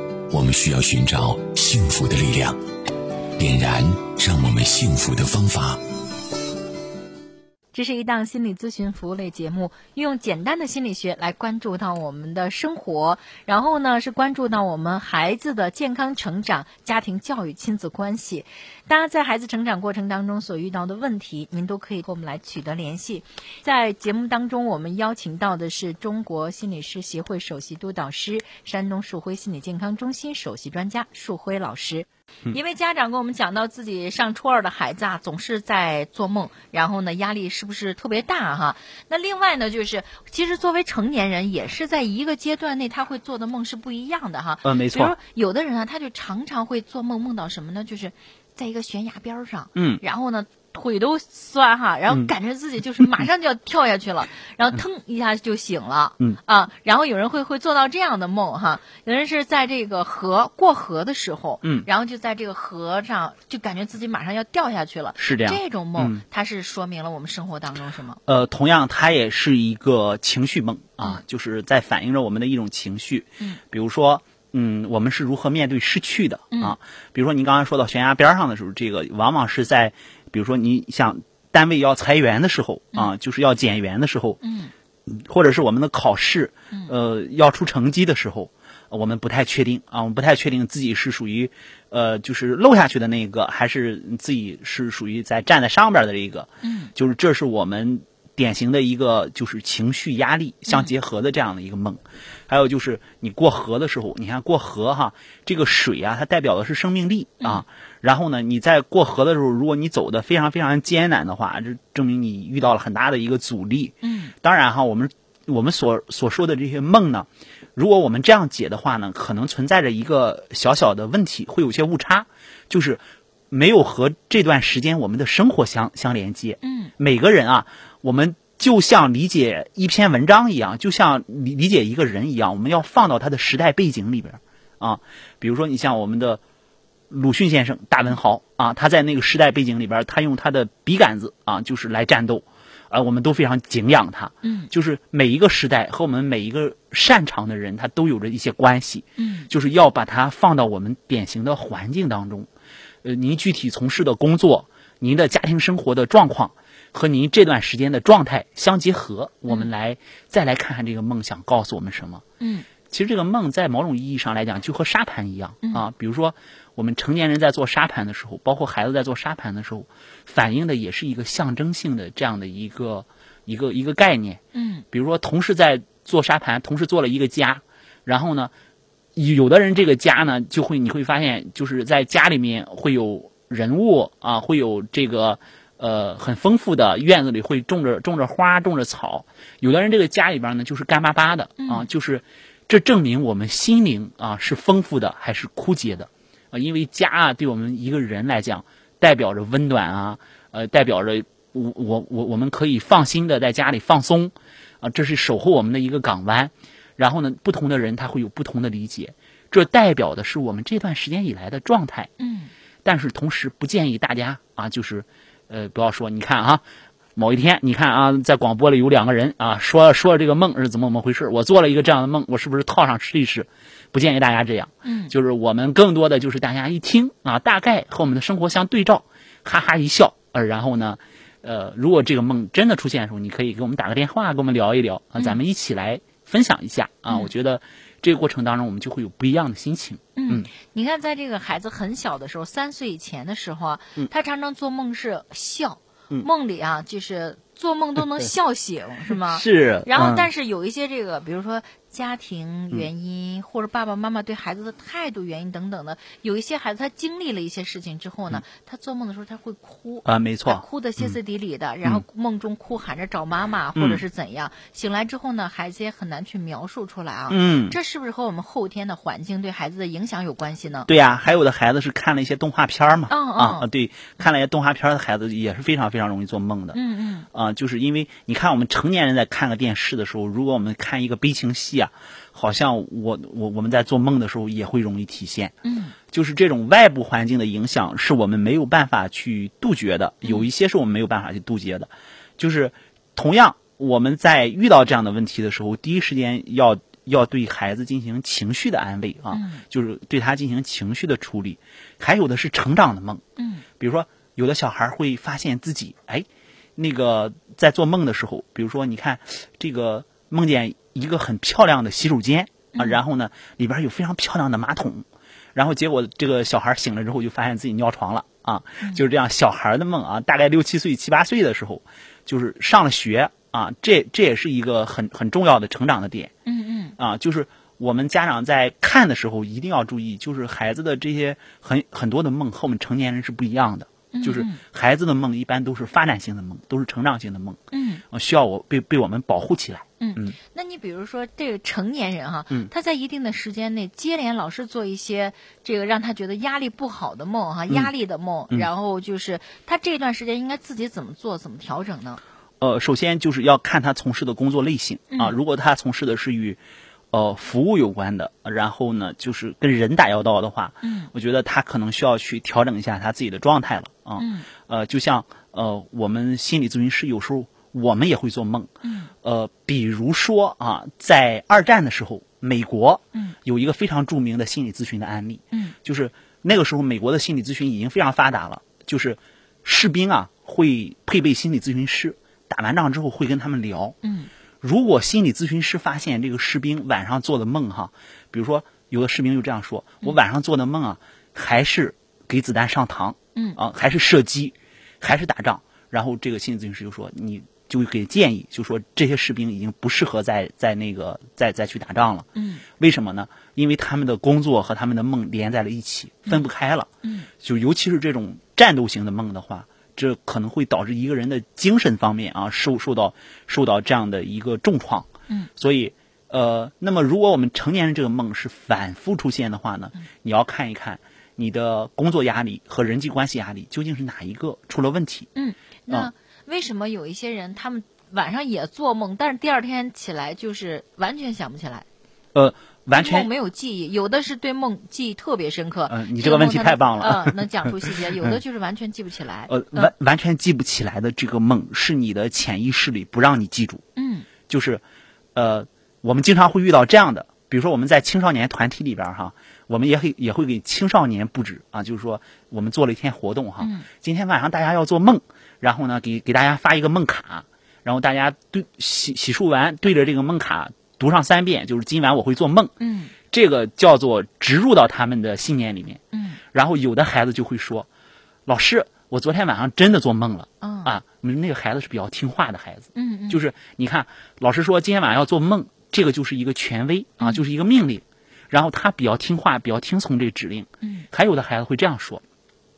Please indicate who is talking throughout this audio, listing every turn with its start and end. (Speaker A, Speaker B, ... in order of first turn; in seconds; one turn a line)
Speaker A: 0.3-2.6
Speaker A: 3.4-5.8
Speaker B: 7.7-68.2
Speaker C: 44.6-45.1
Speaker C: 49.7-50.0
Speaker C: 61.6-61.9
Speaker C: 65.2-66.2
Speaker C: 68.2-84.4
Speaker B: 84.4-84.7
Speaker C: 85.1-136.4
Speaker B: 96.6-96.9
Speaker B: 114.0-114.3
Speaker B: 126.6-126.9
Speaker C: 137.1-152.5
Speaker B: 144.4-144.7
Speaker B: 149.2-149.5
Speaker C: 153.0-162.2
Speaker B: 162.4-162.7
Speaker C: 162.9-174.4
Speaker B: 174.5-174.8
Speaker C: 174.9-178.5
Speaker C: 179.2-212.1
Speaker B: 191.6-191.9
Speaker B: 212.2-212.5
Speaker C: 212.8-216.6
Speaker C: 217.2-240.5
Speaker B: 224.8-225.1
Speaker B: 240.2-270.9
Speaker C: 249.1-250.3
Speaker C: 260.0-261.2
Speaker C: 263.8-264.0
Speaker C: 267.3-267.8
Speaker C: 270.9-276.8
Speaker B: 273.1-273.7
Speaker B: 276.7-277.3
Speaker C: 277.3-285.5
Speaker B: 285.6-285.9
Speaker C: 286.1-303.2
Speaker B: 299.3-299.6
Speaker B: 303.4-303.6
Speaker C: 303.8-326.3
Speaker B: 312.7-313.0
Speaker B: 326.4-326.9
Speaker C: 327.0-337.6
Speaker B: 334.1-334.6
Speaker B: 337.7-338.0
Speaker C: 338.1-340.4
Speaker B: 340.0-352.2
Speaker C: 352.6-356.6
Speaker C: 357.1-368.7
Speaker B: 360.8-361.1
Speaker B: 364.2-364.5
Speaker B: 368.8-369.1
Speaker C: 369.2-384.0
Speaker B: 384.0-384.3
Speaker C: 384.6-402.3
Speaker B: 393.3-393.6
Speaker B: 402.3-402.6
Speaker C: 402.8-406.9
Speaker B: 407.0-407.3
Speaker C: 407.4-425.3
Speaker B: 425.3-431.9
Speaker C: 432.3-433.3
Speaker B: 432.9-439.9
Speaker C: 435.9-437.7
Speaker C: 439.5-443.8
Speaker B: 443.9-444.3
Speaker C: 444.5-444.8
Speaker C: 445.3-462.7
Speaker B: 453.6-453.9
Speaker B: 462.8-463.1
Speaker C: 463.3-466.0
Speaker B: 466.1-466.4
Speaker C: 466.5-467.9
Speaker C: 468.5-482.2
Speaker B: 470.6-470.9
Speaker B: 472.9-473.4
Speaker B: 480.8-481.1